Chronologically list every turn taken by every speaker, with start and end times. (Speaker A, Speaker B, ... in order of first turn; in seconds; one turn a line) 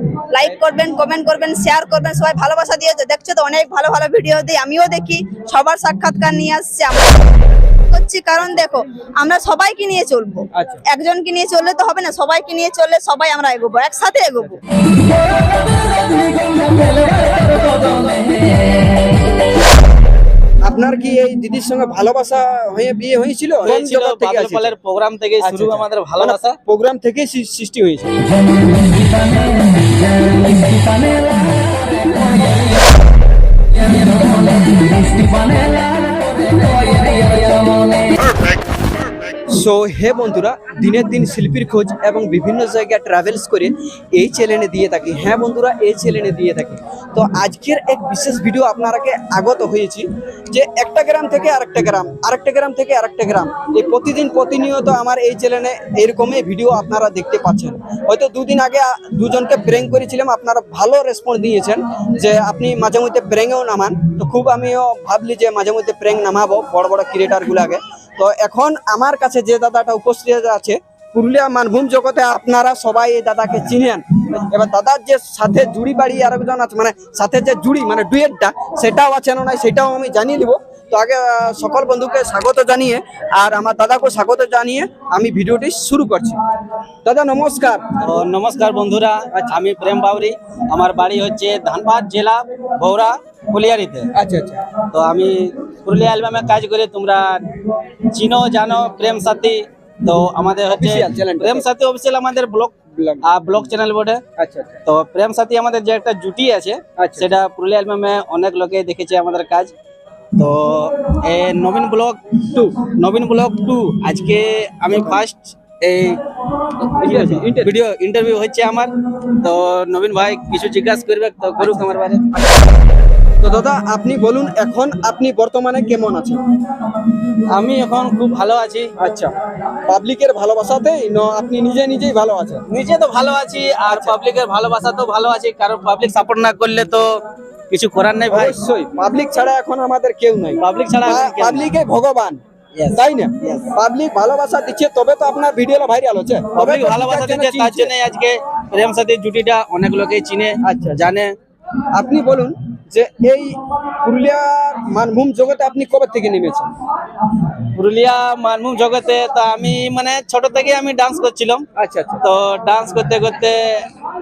Speaker A: 0.3-7.3
Speaker A: 7.9-14.6
Speaker B: 10.5-10.8
Speaker C: 17.7-18.3
Speaker B: 20.6-24.7
Speaker C: 23.6-26.6
Speaker B: 25.4-28.1
Speaker B: 39.5-86.4
Speaker B: 87.0-87.9
Speaker C: 88.0-94.1
Speaker B: 94.1-94.6
Speaker C: 94.9-97.4
Speaker C: 98.1-104.2
Speaker B: 100.7-101.7
Speaker B: 103.0-103.3
Speaker B: 104.4-104.8
Speaker C: 104.9-109.7
Speaker B: 107.0-107.3
Speaker C: 110.4-116.2
Speaker B: 116.9-117.7
Speaker C: 116.9-122.3
Speaker B: 121.6-122.5
Speaker B: 123.4-126.4
Speaker C: 127.5-128.9
Speaker B: 129.0-129.3
Speaker B: 129.9-132.6
Speaker C: 132.7-137.1
Speaker B: 133.9-134.2
Speaker C: 137.7-138.6
Speaker B: 138.3-142.4
Speaker C: 140.6-141.7
Speaker C: 142.8-143.7
Speaker B: 142.9-147.9
Speaker C: 146.5-151.3
Speaker B: 150.6-151.0
Speaker B: 151.9-156.7
Speaker C: 157.8-161.7
Speaker B: 161.8-162.2
Speaker C: 162.2-163.9